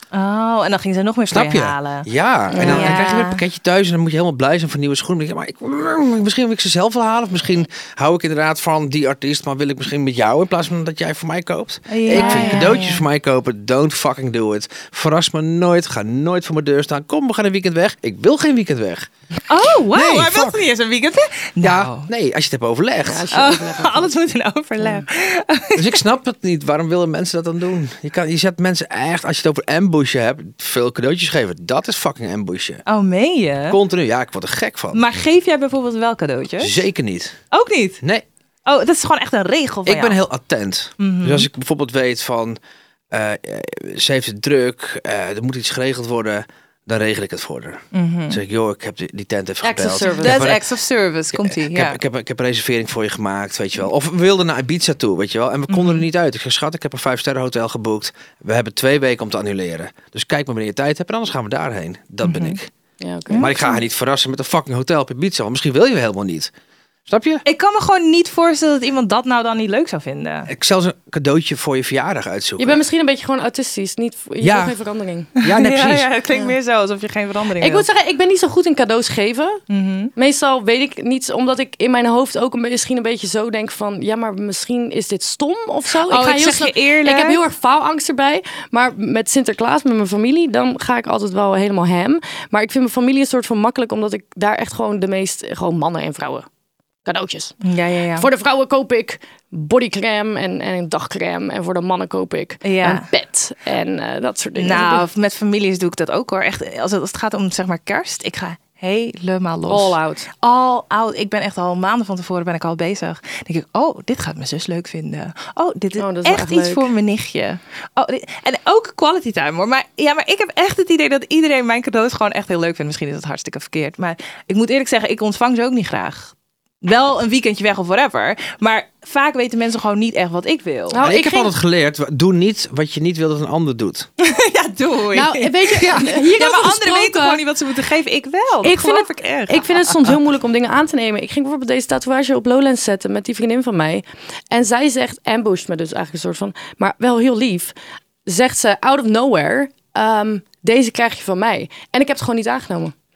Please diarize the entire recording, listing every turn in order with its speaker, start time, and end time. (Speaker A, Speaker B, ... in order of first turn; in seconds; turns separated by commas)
Speaker A: 0.1-2.1, Speaker B: 1.3-19.1, Speaker C: 2.5-3.0, Speaker A: 2.6-3.4, Speaker A: 11.9-13.0, Speaker C: 12.1-12.8, Speaker A: 19.5-22.1, Speaker B: 19.9-20.6, Speaker B: 21.6-23.3, Speaker C: 23.1-24.1, Speaker A: 23.3-26.0, Speaker B: 25.7-32.8, Speaker A: 32.9-33.8, Speaker B: 33.7-35.0, Speaker A: 34.9-36.8, Speaker B: 36.6-37.4, Speaker A: 37.5-38.0, Speaker A: 38.6-40.2, Speaker B: 39.9-42.6, Speaker A: 41.0-41.5, Speaker B: 43.1-50.6, Speaker A: 47.9-48.4, Speaker C: 49.6-50.4, Speaker A: 50.0-52.0, Speaker B: 51.3-62.7, Speaker A: 55.7-56.0, Speaker A: 62.2-62.6, Speaker C: 63.0-63.8, Speaker A: 63.3-63.6, Speaker B: 63.4-66.5, Speaker B: 67.1-67.4, Speaker A: 67.4-70.5, Speaker B: 70.5-72.8, Speaker C: 72.6-75.3, Speaker B: 74.4-74.8, Speaker A: 75.4-77.8, Speaker B: 75.4-76.1, Speaker C: 77.6-79.6, Speaker A: 79.7-80.1, Speaker C: 80.2-96.5, Speaker A: 86.1-87.4, Speaker C: 97.0-97.5, Speaker A: 97.6-98.3, Speaker C: 98.2-105.0, Speaker A: 102.6-103.1, Speaker A: 104.5-131.0, Speaker C: 109.7-110.3, Speaker C: 116.0-116.9, Speaker C: 130.9-131.5, Speaker B: 131.0-134.1, Speaker A: 134.2-139.9, Speaker C: 135.1-137.4, Speaker C: 138.6-147.7, Speaker C: 148.2-152.9